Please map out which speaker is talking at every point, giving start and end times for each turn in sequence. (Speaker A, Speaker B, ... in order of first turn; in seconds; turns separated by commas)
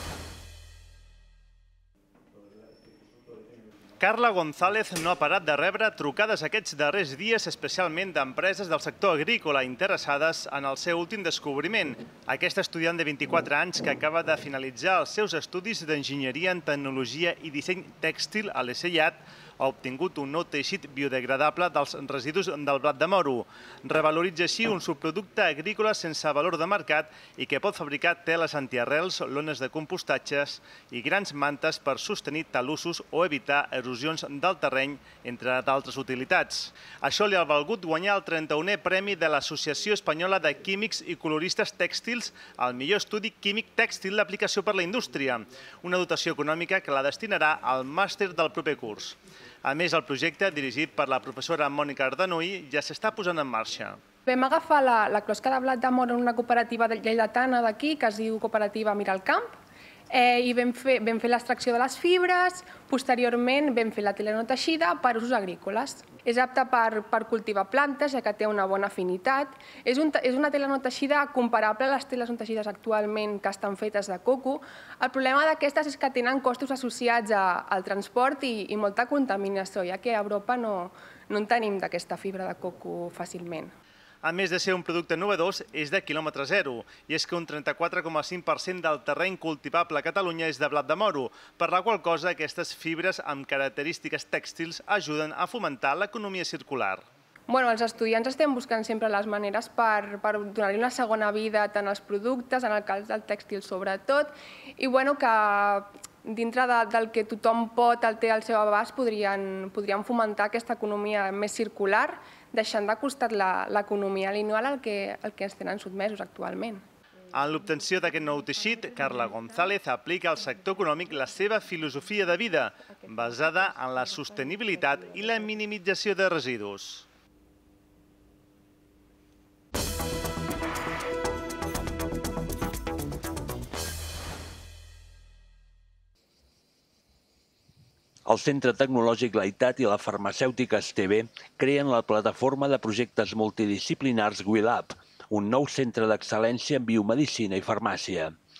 Speaker A: 4.0-54.0, Speaker B: 54.2-59.5, Speaker B: 60.1-83.7, Speaker A: 84.2-97.0, Speaker B: 97.5-116.8, Speaker A: 117.3-127.0, Speaker C: 138.3-148.3